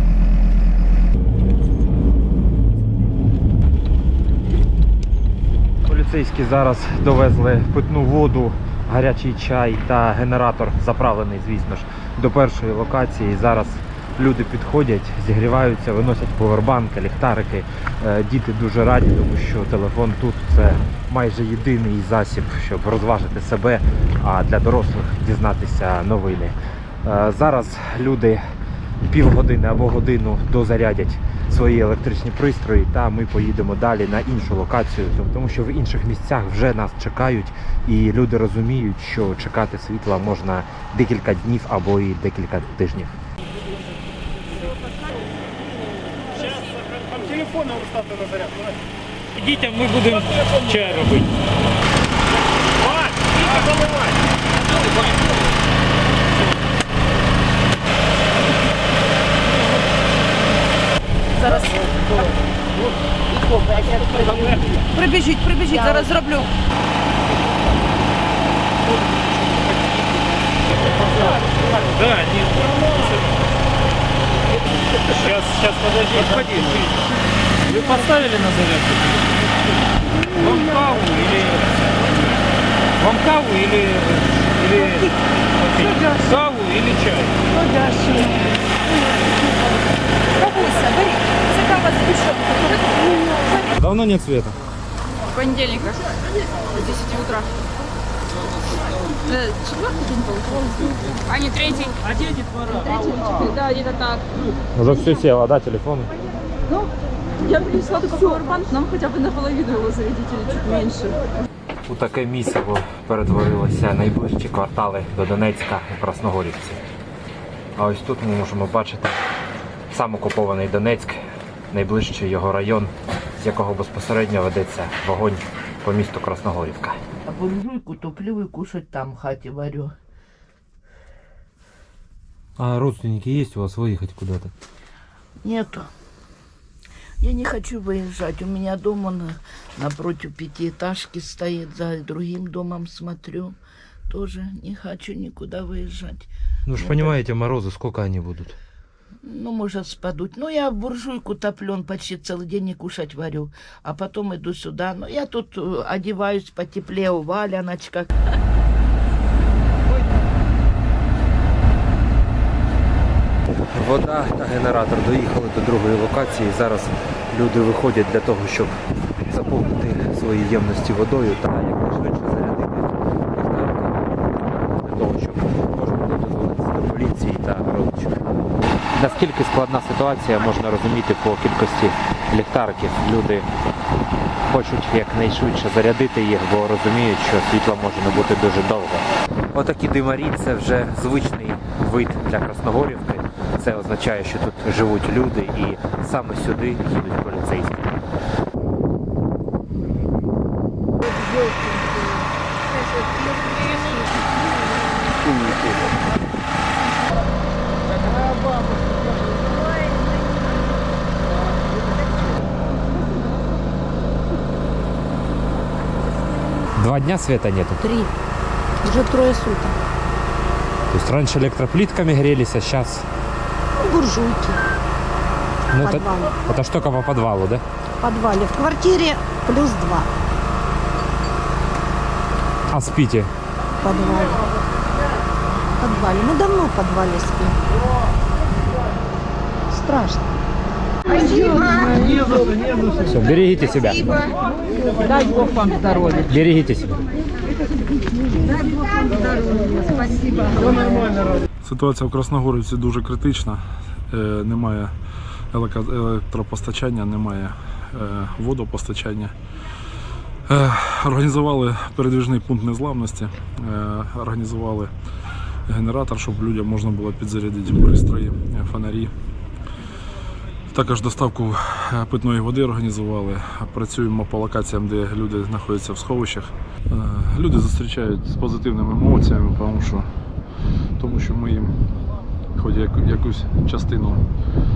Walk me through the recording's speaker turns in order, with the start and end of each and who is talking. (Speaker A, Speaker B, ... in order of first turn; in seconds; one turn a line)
Speaker A: 5.8-28.4
Speaker A: 29.0-43.1
Speaker A: 49.4-50.2
Speaker A: 50.9-51.2
Speaker B: 63.3-64.8
Speaker C: 65.0-66.5
Speaker D: 72.0-72.6
Speaker D: 75.4-76.9
Speaker D: 78.2-78.8
Speaker D: 80.3-81.9
Speaker D: 83.0-85.1
Speaker D: 86.2-87.4
Speaker E: 87.9-88.2
Speaker C: 90.3-93.8
Speaker A: 93.8-94.5
Speaker C: 95.3-96.1
Speaker C: 96.7-97.5
Speaker C: 99.2-104.3
Speaker A: 104.7-106.1
Speaker C: 106.7-111.2
Speaker A: 111.8-116.8
Speaker A: 117.8-119.2
Speaker A: 119.9-121.2
Speaker A: 121.7-127.0
Speaker B: 127.2-129.9
Speaker A: 132.6-134.5
Speaker B: 135.4-135.9
Speaker B: 137.2-143.6
Speaker B: 144.1-147.1
Speaker A: 146.7-148.6
Speaker B: 149.2-158.1
Speaker A: 163.7-178.2
Speaker A: 178.9-183.5
Speaker A: 184.5-198.0
Speaker C: 203.5-203.8
Speaker A: 216.8-218.0
Speaker E: 218.8-219.8
Speaker A: 220.9-223.1
Speaker E: 223.8-224.6
Speaker A: 225.7-227.6
Speaker E: 225.8-226.3
Speaker E: 228.0-230.1
Speaker A: 232.7-233.3
Speaker E: 233.8-234.4
Speaker E: 235.8-237.6
Speaker E: 239.7-240.3
Speaker E: 241.2-242.3
Speaker A: 243.0-244.3
Speaker C: 245.1-246.1
Speaker A: 246.1-246.9
Speaker F: 251.6-254.9
Speaker F: 255.5-259.3
Speaker F: 260.5-264.9
Speaker F: 265.7-269.1
Speaker F: 270.7-280.1
Speaker F: 281.0-281.8
Speaker F: 282.6-284.2